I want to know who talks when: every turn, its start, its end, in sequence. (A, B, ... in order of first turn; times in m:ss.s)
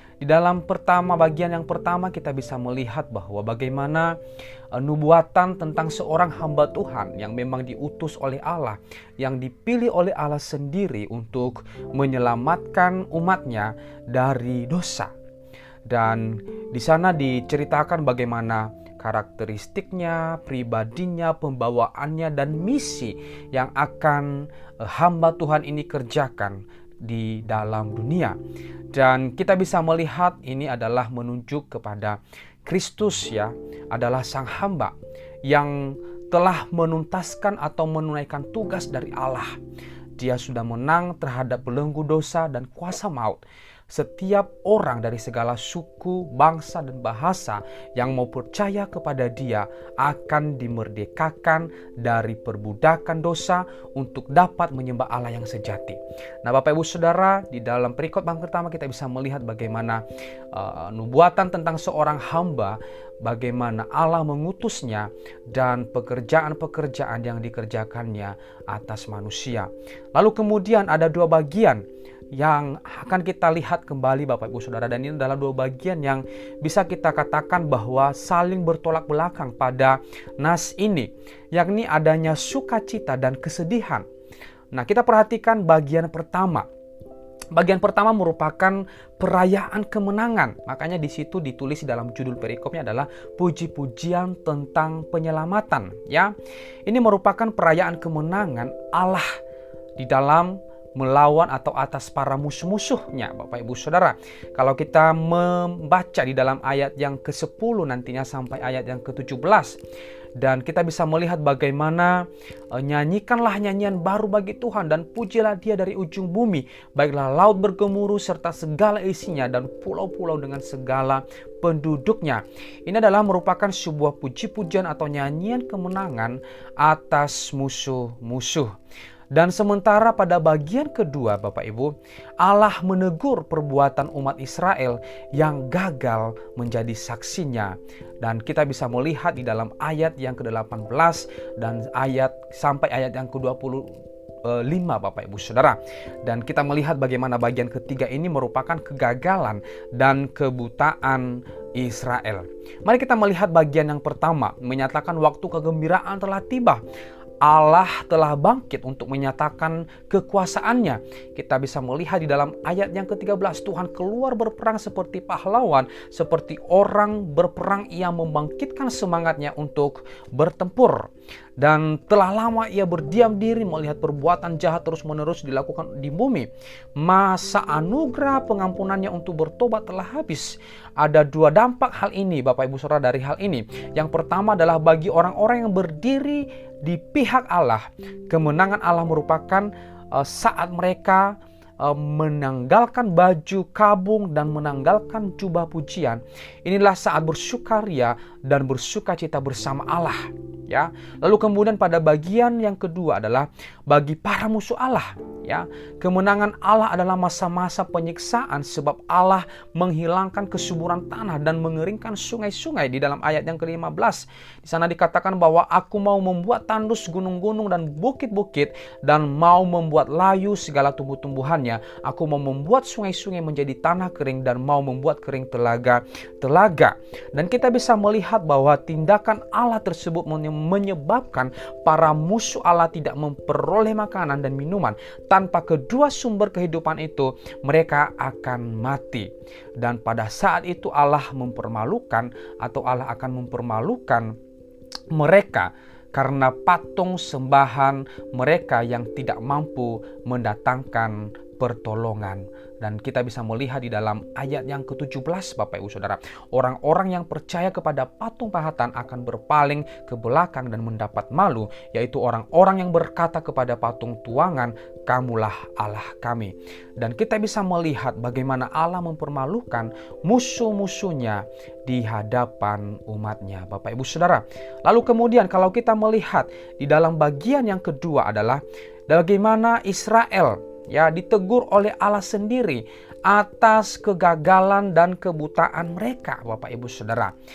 0:00.2-0:04.1 A
0:04.7-0:15.1 A
0:15.9-0:28.4 A
0:28.9-0:34.9 A
0:35.4-0:39.6 A
0:40.2-1:24.0 A
1:24.7-1:26.7 A
1:27.5-1:36.3 A
1:36.8-1:39.3 A
1:40.0-1:49.8 A
1:50.4-2:08.7 A
2:09.3-2:23.9 A
2:24.4-2:36.8 A
2:37.4-4:04.3 A
4:05.1-4:47.3 A